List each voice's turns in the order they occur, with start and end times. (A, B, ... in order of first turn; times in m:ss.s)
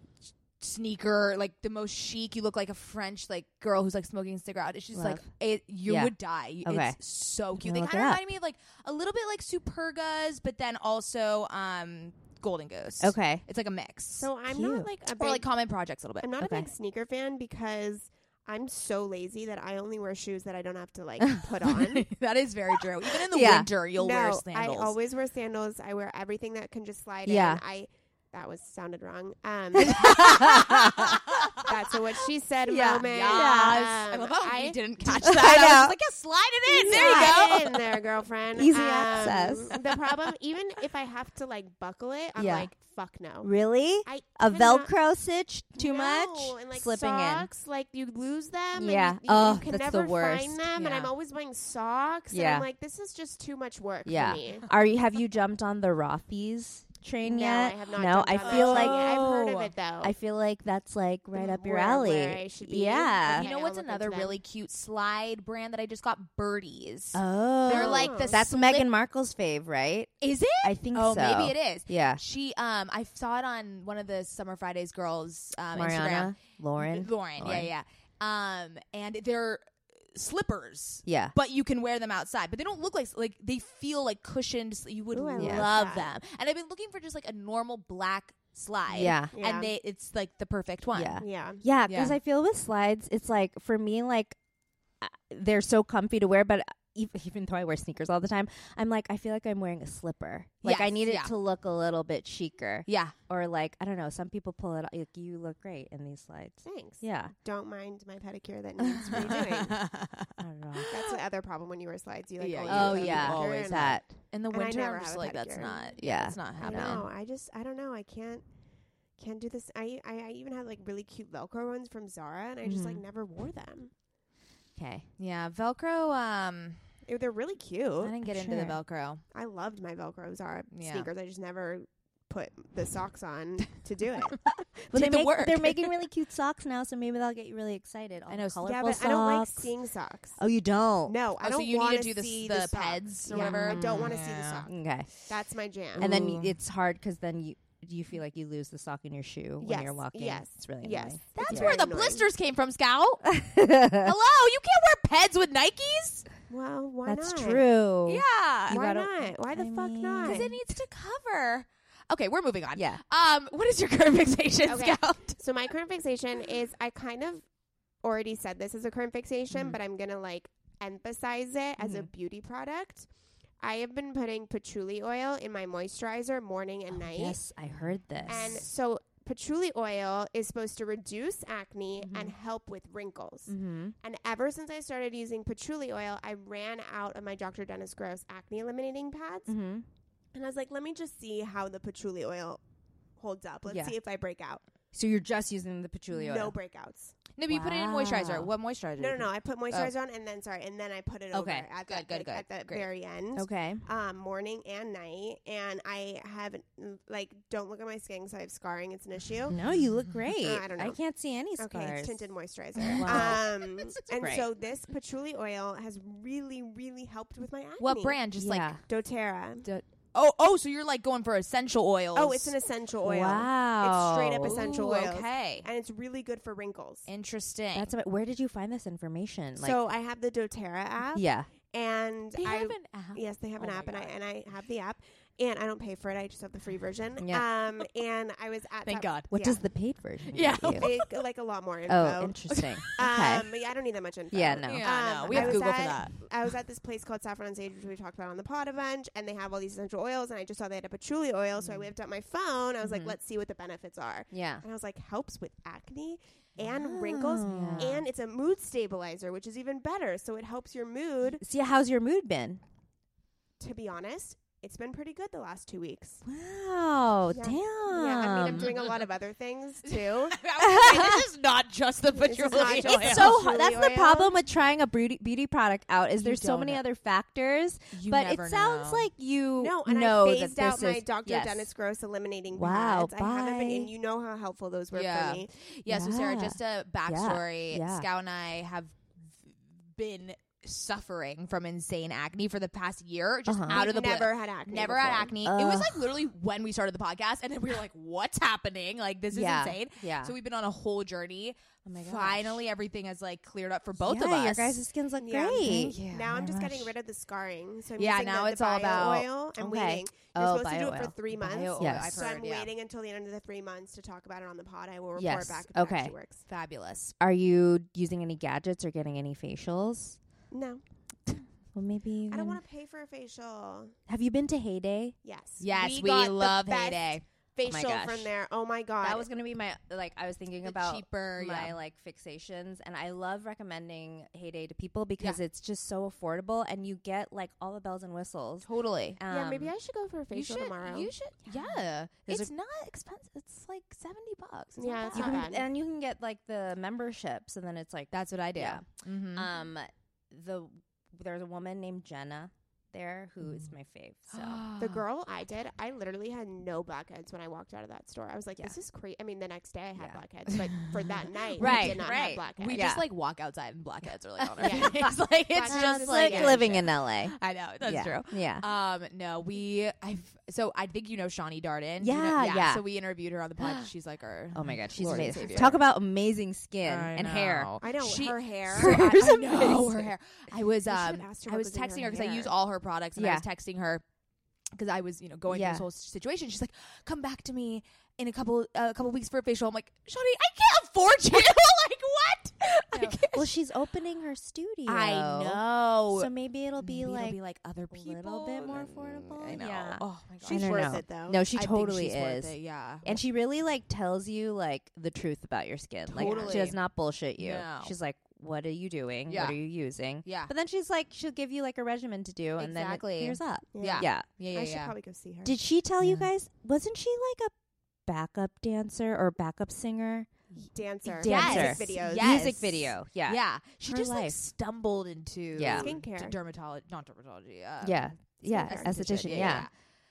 0:00.6-0:14.3 A
0:04.9-0:05.2 B
0:05.9-0:06.1 B
0:06.6-0:07.0 B
0:07.6-0:08.2 B
0:13.0-0:13.4 B
0:14.2-0:15.4 C
0:14.5-0:14.9 B
0:15.2-0:16.3 A
0:16.2-0:22.1 C
0:16.4-0:16.7 B
0:21.6-0:24.9 A
0:23.2-0:23.7 B
0:24.0-0:35.3 C
0:27.2-0:27.6 B
0:29.8-0:31.2 B
0:29.8-0:31.9 A
0:32.6-0:33.9 B
0:33.0-0:38.0 A
0:35.1-0:35.9 B
0:36.7-0:43.5 C
0:36.8-0:37.6 B
0:38.6-0:39.7 B
0:39.7-0:40.1 A
0:42.4-0:42.7 B
0:43.4-0:47.5 B
0:44.0-0:44.9 C
0:45.8-0:54.6 C
0:48.8-0:50.6 B
0:50.7-0:51.1 A
0:52.3-0:52.6 B
0:54.0-1:03.5 B
0:57.2-1:00.1 C
0:58.4-0:59.6 A
1:01.3-1:04.4 C
1:03.3-1:08.9 A
1:07.1-1:10.1 B
1:07.7-1:08.4 C
1:10.2-1:31.2 A
1:10.6-1:12.2 B
1:15.7-1:17.7 B
1:21.0-1:21.3 B
1:25.1-1:26.1 C
1:25.4-1:25.7 B
1:28.9-1:29.3 B
1:29.3-1:29.7 C
1:30.9-1:34.4 B
1:31.2-1:31.6 C
1:31.9-1:32.2 A
1:35.0-1:47.3 B
1:40.6-1:41.3 A
1:42.9-1:43.1 A
1:46.6-1:49.8 C
1:48.8-1:51.1 A
1:50.4-1:51.0 B
1:50.9-1:56.0 C
1:52.4-1:57.0 A
1:52.7-1:54.1 B
1:56.0-1:57.0 B
1:56.6-1:58.4 C
1:59.2-2:03.9 C
2:02.6-2:03.0 B
2:04.8-2:05.0 B
2:05.2-2:06.9 A
2:07.0-2:08.1 C
2:08.0-2:09.2 A
2:08.2-2:08.8 B
2:09.3-2:14.4 C
2:10.7-2:11.1 A
2:14.9-2:19.7 B
2:14.9-2:15.9 A
2:18.3-2:18.7 A
2:18.6-2:20.4 C
2:20.4-2:21.2 B
2:21.1-2:24.7 C
2:21.4-2:24.7 A
2:23.3-2:25.1 B
2:25.3-2:26.1 C
2:25.9-2:26.6 A
2:26.0-2:31.8 B
2:29.6-2:32.3 C
2:31.3-2:33.3 A
2:33.3-2:34.1 B
2:34.0-2:36.2 A
2:36.5-2:37.6 C
2:37.0-2:40.6 B
2:38.0-2:38.8 A
2:38.7-2:40.5 C
2:40.2-2:45.4 A
2:44.6-2:47.4 C
2:48.0-2:53.1 C
2:51.8-2:52.1 B
2:53.6-2:57.4 C
2:57.0-2:58.6 B
2:57.7-2:58.6 A
2:58.3-3:09.5 C
3:02.0-3:02.3 B
3:03.5-3:03.9 B
3:09.5-3:09.8 B
3:10.3-3:12.6 C
3:13.2-3:14.6 C
3:13.7-3:13.9 B
3:14.9-3:16.5 B
3:16.1-3:17.1 C
3:17.4-3:19.9 A
3:17.5-3:18.5 B
3:19.0-3:29.6 C
3:21.3-3:21.7 B
3:21.8-3:22.9 A
3:23.3-3:23.8 B
3:29.5-3:32.3 B
3:30.4-3:31.0 C
3:31.6-3:38.2 C
3:32.8-3:33.4 B
3:32.8-3:34.3 A
3:34.2-3:34.4 B
3:37.8-3:38.8 A
3:38.4-3:38.8 B
3:38.8-3:39.6 C
3:39.6-3:42.5 A
3:42.1-3:47.1 C
3:43.0-3:44.6 B
3:44.5-3:45.7 A
3:47.1-3:47.9 A
3:47.7-3:49.8 B
3:49.6-3:59.6 C
3:51.1-3:51.5 B
3:52.4-3:54.1 A
3:58.8-3:59.3 A
3:59.3-4:00.9 B
4:00.3-4:01.2 A
4:00.8-4:02.4 C
4:01.9-4:03.5 B
4:02.5-4:03.0 A
4:03.0-4:21.4 C
4:04.3-4:05.6 B
4:04.6-4:06.2 A
4:12.8-4:13.1 B
4:14.3-4:14.6 B
4:16.7-4:18.0 B
4:17.4-4:18.0 A
4:21.4-4:22.6 B
4:23.6-4:26.2 C
4:26.2-4:28.7 B
4:27.3-4:30.4 C
4:28.4-4:29.0 A
4:29.8-4:33.3 A
4:30.6-4:31.2 B
4:32.1-4:34.4 C
4:32.7-4:41.7 B
4:36.2-4:36.8 A
4:37.9-4:39.1 A
4:39.6-4:45.5 C
4:42.5-4:43.9 B
4:44.9-5:04.8 A
4:45.9-4:48.1 B
4:53.5-4:53.8 B
4:53.7-4:55.3 C
4:55.4-4:56.2 B
4:59.3-5:00.3 B
5:01.8-5:02.6 B
5:04.0-5:06.8 B
5:05.2-5:16.4 C
5:05.6-5:06.8 A
5:08.0-5:09.3 A
5:09.6-5:12.2 B
5:11.3-5:12.7 A
5:15.2-5:16.1 B
5:16.5-5:17.1 A
5:17.2-5:20.2 B
5:20.5-5:20.8 C
5:21.3-5:22.6 B
5:22.3-5:23.9 C
5:24.1-5:25.1 B
5:25.2-5:29.3 C
5:25.6-5:27.2 A
5:27.6-5:28.3 B
5:29.0-5:39.7 B
5:30.6-5:31.8 A
5:38.6-5:39.2 A
5:39.3-5:41.1 C
5:40.3-5:45.4 A
5:41.5-5:42.5 B
5:44.8-5:45.7 C
5:45.1-5:54.6 B
5:48.1-5:49.5 A
5:53.4-5:53.7 A
5:54.3-5:55.0 A
5:54.8-6:02.8 C
6:00.5-6:15.8 A
6:01.6-6:03.0 B
6:04.4-6:05.1 B
6:04.6-6:05.0 C
6:05.5-6:06.8 C
6:05.7-6:08.6 B
6:12.0-6:12.8 B
6:13.6-6:13.9 B
6:14.5-6:17.7 B
6:15.0-6:15.8 C
6:16.8-6:24.0 A
6:17.8-6:19.8 C
6:18.7-6:20.0 B
6:20.8-6:22.5 C
6:23.2-6:23.4 B
6:24.7-6:33.5 A
6:25.5-6:25.8 B
6:32.9-6:37.4 B
6:34.8-6:43.2 A
6:37.9-6:54.2 B
6:40.4-6:41.4 C
6:46.1-6:46.8 A
6:46.2-6:46.7 C
6:47.4-6:47.9 A
6:49.3-6:49.6 A
6:50.2-6:50.5 A
6:52.6-6:54.9 A
6:53.7-6:55.5 C
6:55.4-6:57.5 B
6:56.0-6:56.3 A
6:58.1-7:00.3 B
7:00.7-7:02.6 C
7:01.1-7:04.4 B
7:01.2-7:09.7 A
7:05.5-7:05.9 B
7:05.7-7:06.4 C
7:07.8-7:09.7 B
7:08.5-7:09.6 C